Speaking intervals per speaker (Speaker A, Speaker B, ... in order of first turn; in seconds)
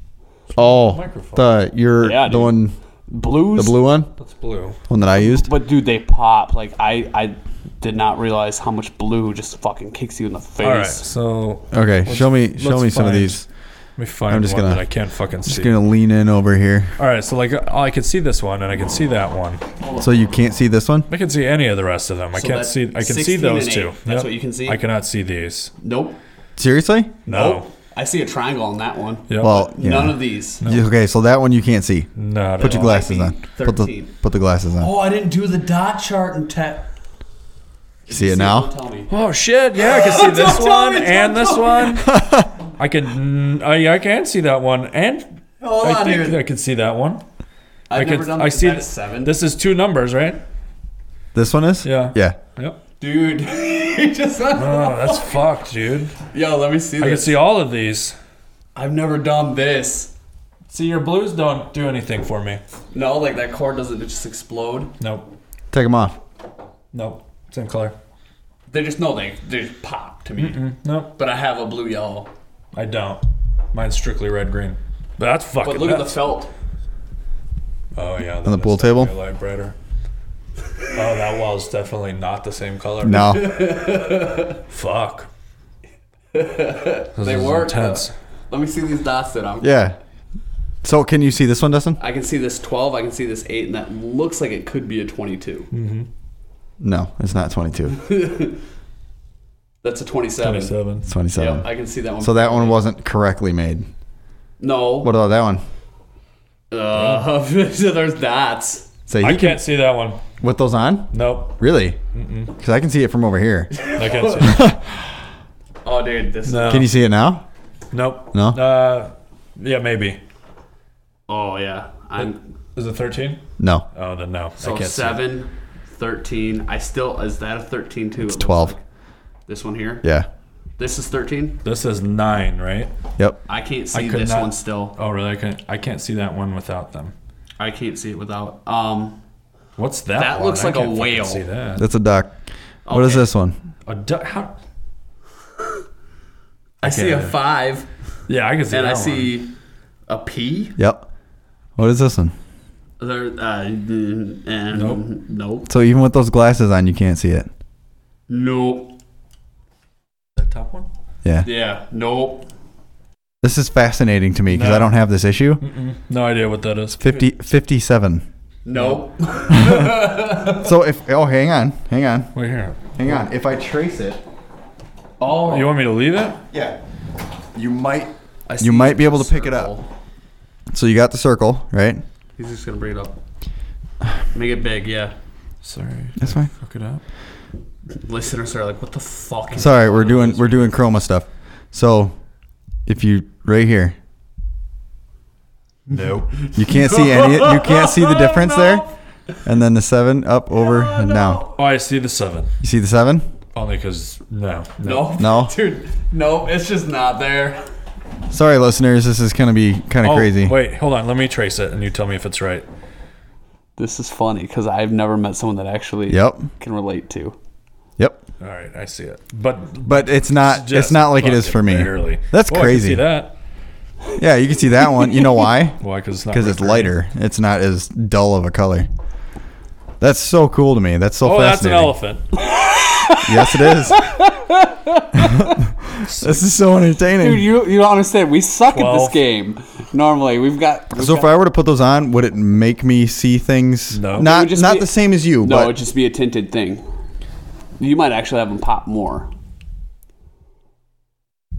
Speaker A: 0.6-2.8, 3.5-4.1, 4.9-5.5, 11.7-13.5, 14.3-14.8, 15.5-16.9, 20.0-21.1, 26.6-27.2, 29.4-34.9, 38.1-38.7, 42.1-42.5, 51.4-52.4, 65.7-66.2, 78.5-79.1, 83.0-83.6, 89.6-90.0, 90.8-92.0, 96.8-98.0, 101.1-101.7, 102.2-103.9, 105.0-105.6, 109.1-109.7, 110.4-112.0, 112.5-115.2, 116.7-117.5, 118.3-118.6, 123.6-123.8, 128.3-128.8, 141.8-143.6, 150.8-151.1, 151.8-152.3, 155.7-157.5, 163.4-165.6, 167.0-168.3, 169.5-172.3, 172.9-174.2, 176.5-176.8, 177.6-179.7, 180.7-182.0, 186.2-186.5, 189.5-192.2, 192.9-194.0, 196.5-198.9, 199.4-201.4, 202.6-203.3, 205.2-205.5, 208.3-210.6, 216.1-216.5, 219.8-223.1, 224.2-228.9, 230.0-231.9, 233.2-234.1, 235.2-237.5, 240.9-245.7
Speaker B: 0.6-1.5, 4.2-4.8, 10.6-13.4, 14.0-15.7, 17.0-19.6, 21.1-25.7, 27.3-27.7, 29.3-29.7, 30.6-30.9, 32.2-33.0, 39.1-42.1, 42.8-47.2, 47.9-50.4, 51.8-52.8, 54.5-56.2, 57.0-58.2, 60.7-62.6, 65.0-65.3, 66.9-68.0, 70.4-71.2, 72.7-76.3, 78.0-79.8, 80.9-83.4, 84.7-85.3, 87.2-88.1, 95.7-96.1, 100.4-101.1, 107.0-107.3, 109.2-110.2, 111.1-111.6, 112.1-112.5, 114.0-114.7, 116.5-116.9, 117.9-120.2, 122.2-123.4, 123.9-125.3, 131.6-132.9, 133.9-137.1, 139.8-141.8, 143.9-144.5, 146.8-147.4, 148.3-149.3, 154.7-155.0, 160.4-160.9, 164.5-165.0, 165.6-167.2, 168.8-169.1, 172.3-173.0, 175.2-176.4, 185.6-187.0, 195.9-196.5, 201.5-202.5, 203.6-205.1, 210.0-212.7, 218.4-223.3, 225.8-226.9, 231.2-232.4, 236.0-236.4, 238.7-239.2, 243.9-244.3
Speaker C: 2.0-3.8, 5.2-11.1, 19.8-20.1, 22.3-24.8, 25.8-26.2, 27.3-30.6, 32.6-34.1, 34.8-36.9, 38.1-39.1, 39.8-42.1, 45.6-46.4, 47.9-49.4, 53.0-55.5, 56.3-57.4, 58.8-60.1, 62.9-64.9, 68.7-72.3, 75.6-76.5, 83.2-84.6, 86.3-89.8, 92.0-95.7, 97.9-98.6, 99.8-100.7, 101.3-102.8, 104.6-105.1, 106.7-108.9, 113.7-114.5, 115.8-116.9, 121.3-122.4, 124.6-128.8, 129.5-130.1, 130.8-131.6, 133.5-134.9, 137.6-139.2, 140.2-141.4, 142.9-143.3, 146.8-147.9, 148.7-149.5, 150.1-150.8, 153.0-155.7, 158.3-158.9, 161.4-162.5, 168.7-170.7, 175.2-175.8, 178.5-179.9, 182.4-183.2, 184.3-185.2, 187.9-190.8, 196.7-198.8, 200.6-201.5, 204.8-207.6, 213.8-217.4, 232.4-235.6, 237.2-241.3, 244.2-246.8, 247.8-249.3